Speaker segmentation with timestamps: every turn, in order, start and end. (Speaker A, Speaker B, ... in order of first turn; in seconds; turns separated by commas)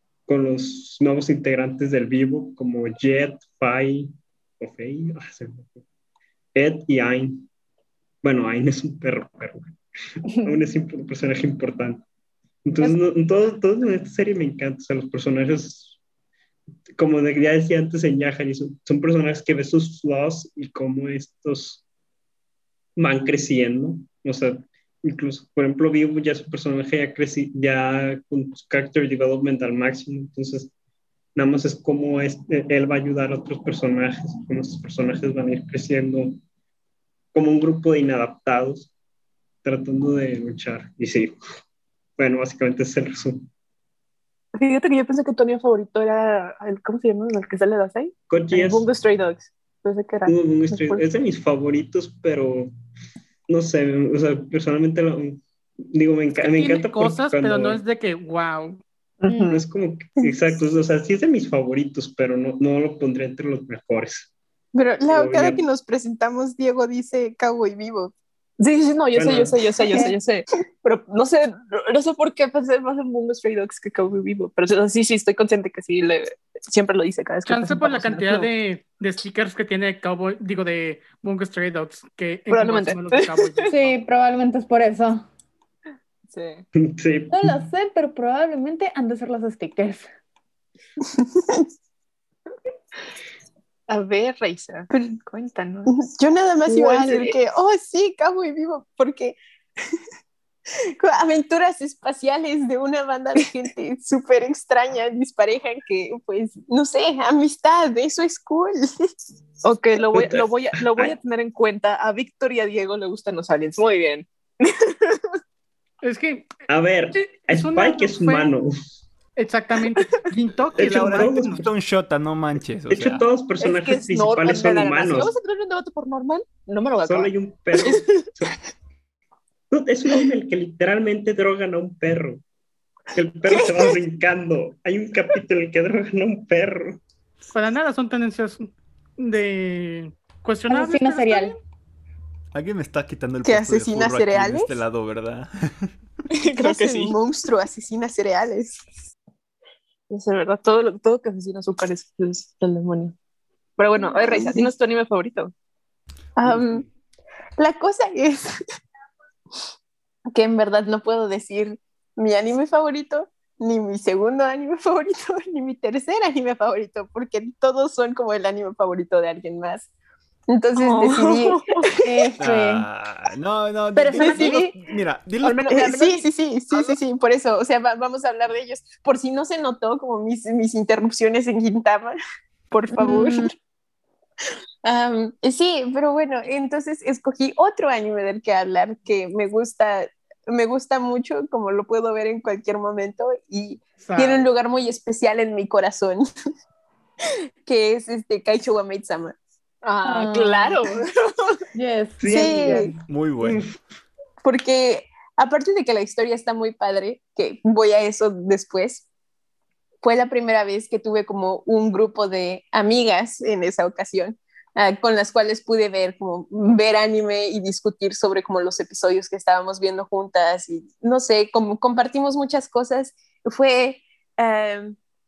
Speaker A: 0.3-5.8, Speaker A: 6.5-7.5, Speaker A: 8.2-9.8, Speaker A: 10.4-12.1, Speaker A: 12.7-16.0, Speaker A: 17.0-21.8, Speaker A: 23.0-30.7, Speaker A: 31.4-36.4, Speaker A: 37.3-38.9, Speaker A: 39.6-41.3, Speaker A: 42.2-43.5, Speaker B: 44.6-51.1, Speaker A: 48.3-48.9, Speaker A: 50.3-52.7, Speaker A: 53.5-57.8, Speaker C: 56.4-58.8, Speaker B: 59.2-59.6, Speaker A: 59.4-64.3, Speaker D: 64.7-68.1, Speaker A: 65.1-65.6, Speaker B: 68.6-78.5, Speaker A: 69.1-69.6, Speaker C: 77.5-84.0, Speaker B: 82.5-83.7, Speaker E: 83.7-85.3, Speaker B: 86.3-86.6, Speaker A: 86.8-87.6, Speaker E: 87.3-90.1, Speaker D: 91.1-91.7, Speaker B: 93.9-95.9, Speaker D: 95.9-99.4, Speaker B: 96.7-97.4, Speaker D: 101.0-108.9, Speaker B: 109.6-115.2, Speaker A: 110.1-111.2, Speaker C: 116.0-116.6, Speaker A: 116.7-119.0, Speaker C: 117.2-118.5, Speaker C: 119.4-121.7, Speaker A: 120.8-121.6, Speaker F: 120.8-123.2, Speaker A: 122.9-125.3, Speaker B: 123.6-128.3, Speaker A: 127.0-128.5, Speaker A: 129.7-132.4, Speaker A: 133.1-137.0, Speaker B: 133.5-134.0, Speaker C: 137.5-141.6, Speaker E: 140.7-141.6, Speaker F: 142.5-145.9, Speaker D: 143.4-144.8, Speaker B: 146.4-147.2, Speaker D: 146.4-148.8, Speaker B: 150.1-153.2, Speaker B: 153.8-155.5, Speaker D: 154.0-154.7, Speaker D: 156.4-156.8, Speaker D: 157.6-158.5, Speaker D: 160.3-169.9, Speaker D: 170.5-171.6, Speaker B: 170.8-171.9, Speaker E: 172.0-172.9, Speaker F: 172.4-175.8, Speaker E: 173.9-174.6, Speaker D: 174.2-174.8, Speaker B: 175.4-176.2, Speaker D: 175.7-182.2, Speaker D: 182.7-183.5, Speaker E: 182.9-183.5, Speaker D: 184.8-196.3, Speaker C: 194.0-194.5, Speaker D: 197.6-199.4, Speaker B: 199.8-201.1, Speaker E: 200.0-200.8, Speaker E: 201.7-202.9, Speaker A: 202.2-203.8, Speaker D: 202.3-202.9, Speaker F: 203.1-203.6, Speaker D: 204.4-209.1, Speaker D: 210.0-225.0